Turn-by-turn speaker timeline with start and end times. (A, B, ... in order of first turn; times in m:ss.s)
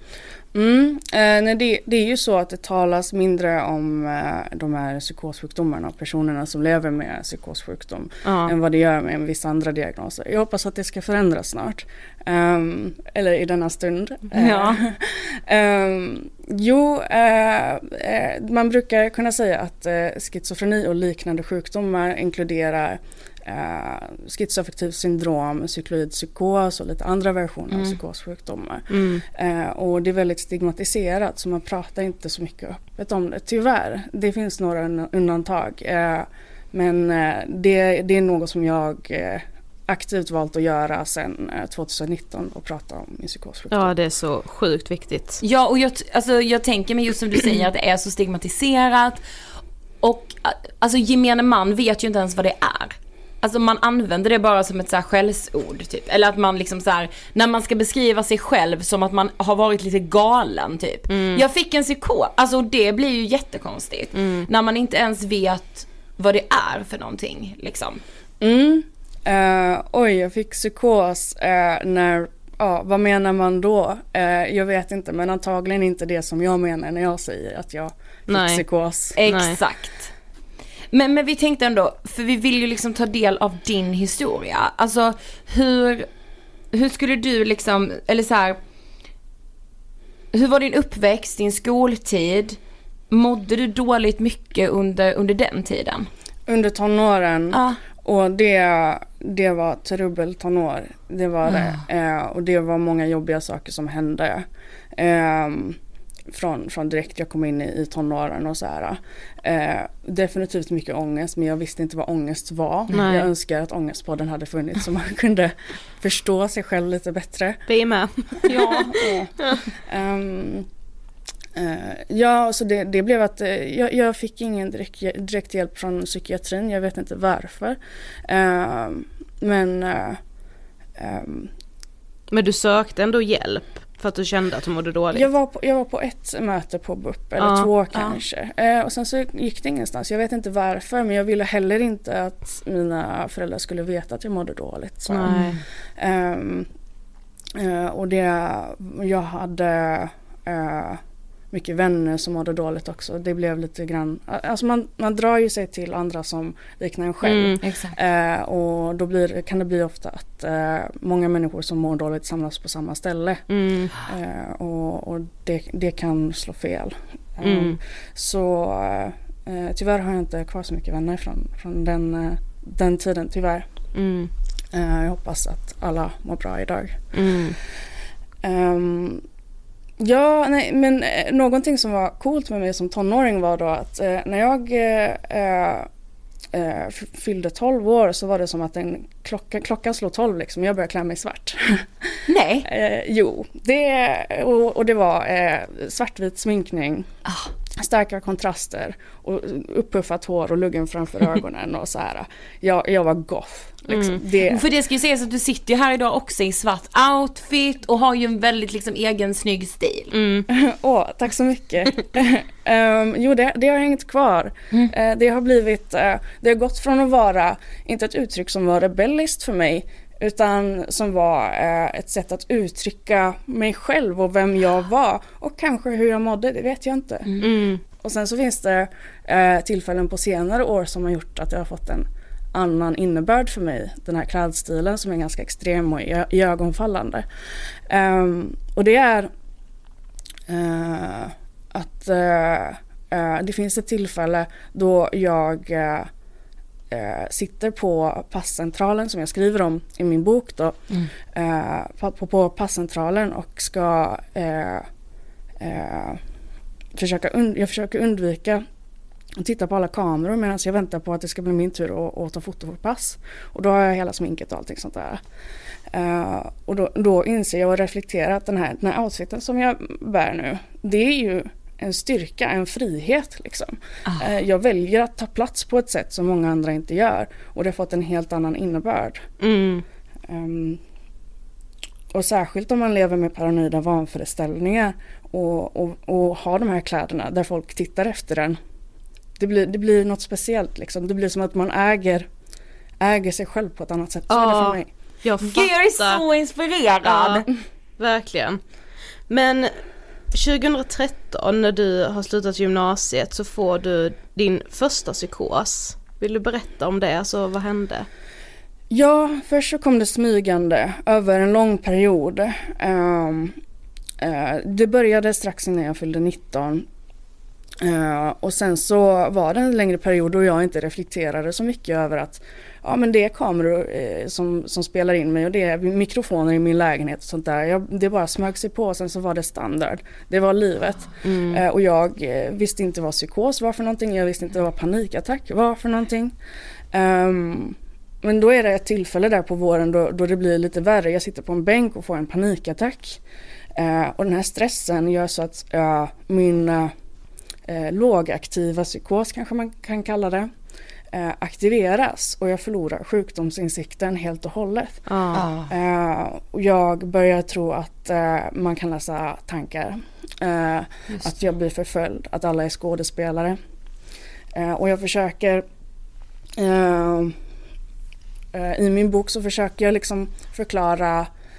0:00.5-0:43.9 A
0:08.2-0:08.6 B
0:14.4-0:14.8 B
0:28.9-0:29.2 B
0:43.7-0:45.4 B
0:45.4-0:49.2 C
0:50.0-1:08.0 C
1:01.1-1:01.4 B
1:04.1-1:04.5 B
1:08.4-1:19.2 A
1:18.3-1:18.6 B
1:19.2-1:20.1 C
1:19.2-1:19.6 B
1:20.9-1:26.1 C
1:26.7-1:28.6 C
1:30.3-1:32.6 C
1:33.1-1:36.1 C
1:36.5-1:45.8 A
1:37.5-1:37.8 C
1:46.3-1:57.6 A
1:52.9-1:53.3 B
1:57.7-1:59.6 B
1:58.5-2:00.7 A
1:58.5-1:59.1 C
2:01.6-2:10.2 A
2:11.0-2:11.5 A
2:12.3-2:15.3 B
2:15.1-2:26.7 A
2:17.4-2:18.2 B
2:25.1-2:25.6 B
2:25.3-2:25.6 C
2:27.6-2:43.4 A
2:37.2-2:37.6 B
2:37.6-2:38.0 C
2:43.5-2:43.9 B
2:44.0-2:53.7 A
2:47.4-2:47.8 B
2:53.9-2:54.3 B
2:54.7-2:57.2 A
2:57.1-2:57.6 B
2:58.4-2:59.2 A
3:00.0-3:05.9 A
3:06.5-3:17.1 A
3:12.3-3:12.7 C
3:17.3-3:17.5 C
3:17.8-3:24.6 A
3:23.9-3:24.2 B
3:24.5-3:30.1 C
3:30.1-3:30.5 B
3:30.5-3:59.3 A
3:47.4-3:47.8 B
4:00.5-4:06.1 A
4:06.9-4:14.9 A
4:15.6-4:16.2 A
4:16.9-4:18.7 A
4:19.4-4:25.2 A
4:25.9-4:39.3 A
4:39.4-4:39.8 B
4:40.3-4:40.8 A
4:42.1-4:48.6 A
4:49.4-4:52.3 A
4:53.0-4:54.9 A
4:54.3-4:56.2 B
4:55.4-4:57.5 C
4:57.0-4:57.4 B
4:58.0-4:58.6 B
4:59.3-4:59.8 B
5:00.3-5:08.1 B
5:08.9-5:13.6 A
5:14.2-5:16.9 A
5:17.8-5:36.4 A
5:31.2-5:31.6 B
5:36.9-5:43.2 A
5:43.8-5:46.9 A
5:47.7-5:50.5 A
5:51.1-6:03.6 A
5:55.1-5:55.4 B
5:55.3-5:55.7 C
6:04.5-6:05.7 A
6:06.6-6:07.4 A
6:08.5-6:11.3 A